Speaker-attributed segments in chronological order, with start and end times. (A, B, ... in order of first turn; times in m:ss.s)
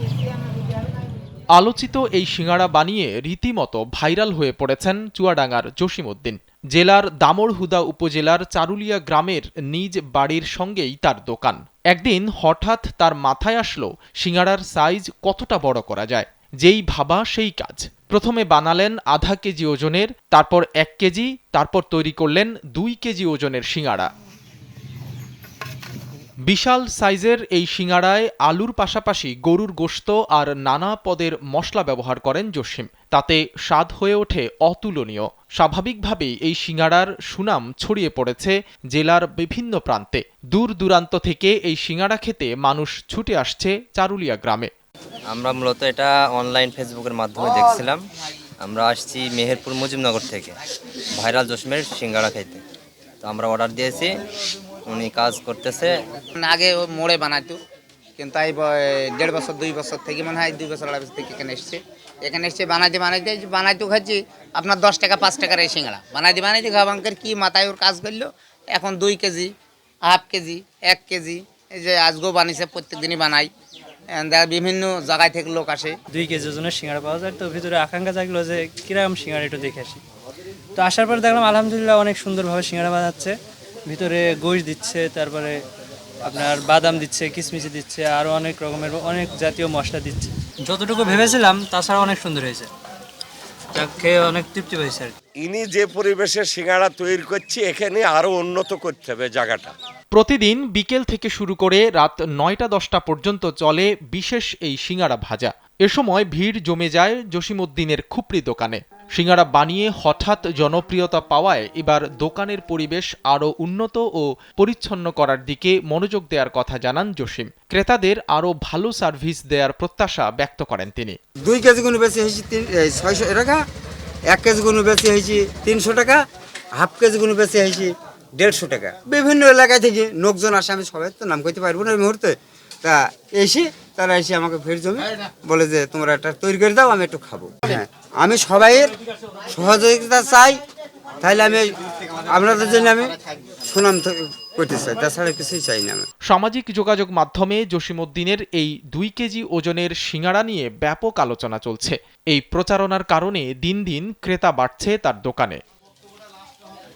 0:01.6-0:24.1 A
0:26.5-0:44.7 A
0:45.3-0:48.0 B
0:48.6-0:50.6 B
0:51.2-0:52.6 B
0:53.2-0:54.1 B
0:54.9-0:55.9 B
0:56.3-0:57.6 C
0:58.2-1:09.5 C
1:10.1-1:13.5 C
1:14.2-1:16.0 C
1:16.1-1:20.0 D
1:20.8-1:23.4 D
1:23.9-1:25.6 D
1:26.2-1:32.7 D
1:33.7-1:35.1 D
1:35.4-1:39.7 E
1:40.1-2:01.2 A
2:01.4-2:03.6 F
2:04.3-2:06.2 F
2:06.8-2:18.9 F
2:19.5-2:20.6 F
2:21.2-2:21.7 F
2:22.3-2:26.1 F
2:26.3-2:35.6 A